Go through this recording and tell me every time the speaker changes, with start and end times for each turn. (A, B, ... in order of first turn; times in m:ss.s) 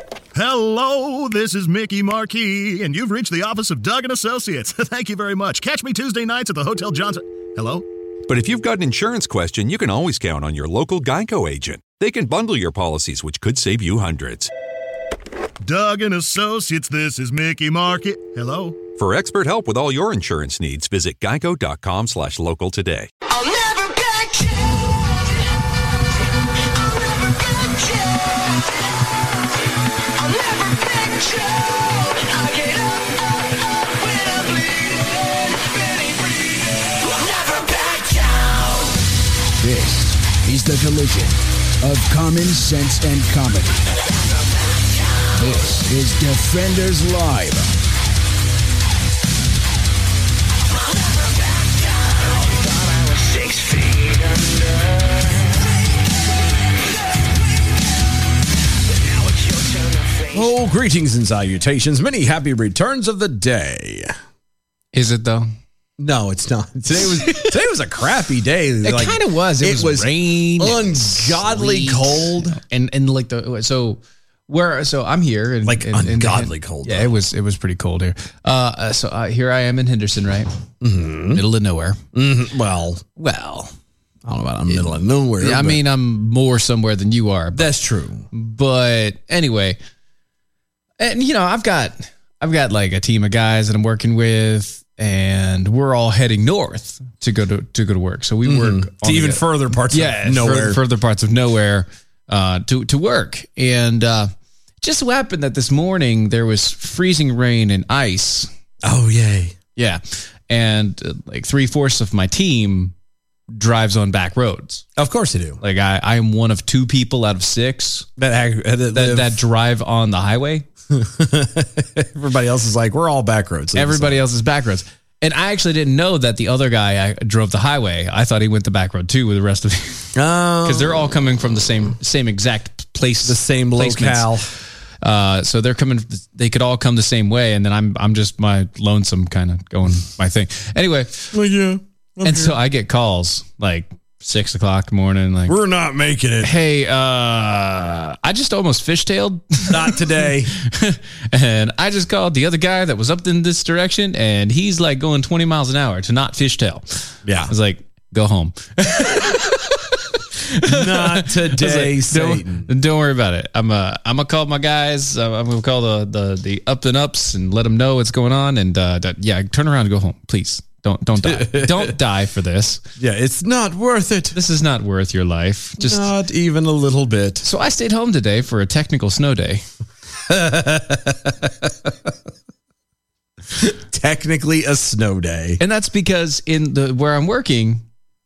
0:00.4-0:07.8 A
0:08.3-0:14.5 B
0:15.6-0:18.8 A
0:19.0-0:23.1 B
0:23.4-0:24.8 C
0:26.9-0:28.0 C
0:30.2-0:33.4 C
0:39.6-0:43.8 D
0:45.2-0:47.7 D
0:53.3-0:54.0 C
1:00.3-1:04.1 E
1:04.9-1:05.5 F
1:06.0-1:12.6 E
1:07.0-1:07.5 F
1:08.8-1:20.5 F
1:15.6-1:17.1 E
1:20.8-1:21.4 E
1:21.3-1:22.0 F
1:22.1-1:23.0 E
1:23.2-1:23.7 F
1:24.2-1:25.8 E
1:25.4-1:27.7 F
1:27.5-1:28.3 E
1:28.3-1:29.8 F
1:31.0-1:48.5 F
1:38.4-1:40.8 E
1:48.8-1:49.6 E
1:49.8-1:52.9 F
1:53.5-1:54.8 F
1:55.0-1:55.6 E
1:55.6-1:58.1 F
1:58.2-1:59.4 E
1:58.9-2:00.7 F
2:00.9-2:04.2 E
2:03.8-2:14.3 F
2:10.2-2:11.2 E
2:13.2-2:14.5 E
2:15.0-2:21.3 F
2:21.3-2:22.6 E
2:22.2-2:25.6 F
2:25.5-2:26.5 E
2:26.4-2:39.9 F
2:29.7-2:30.5 E
2:37.2-2:37.5 E
2:40.5-2:52.8 F
2:40.7-2:42.7 E
2:51.2-2:52.0 E
2:53.0-2:54.4 E
2:54.3-2:56.1 F
2:55.8-2:57.4 E
2:57.4-2:59.6 F
3:00.3-3:02.1 E
3:03.5-3:05.6 E
3:05.6-3:07.8 F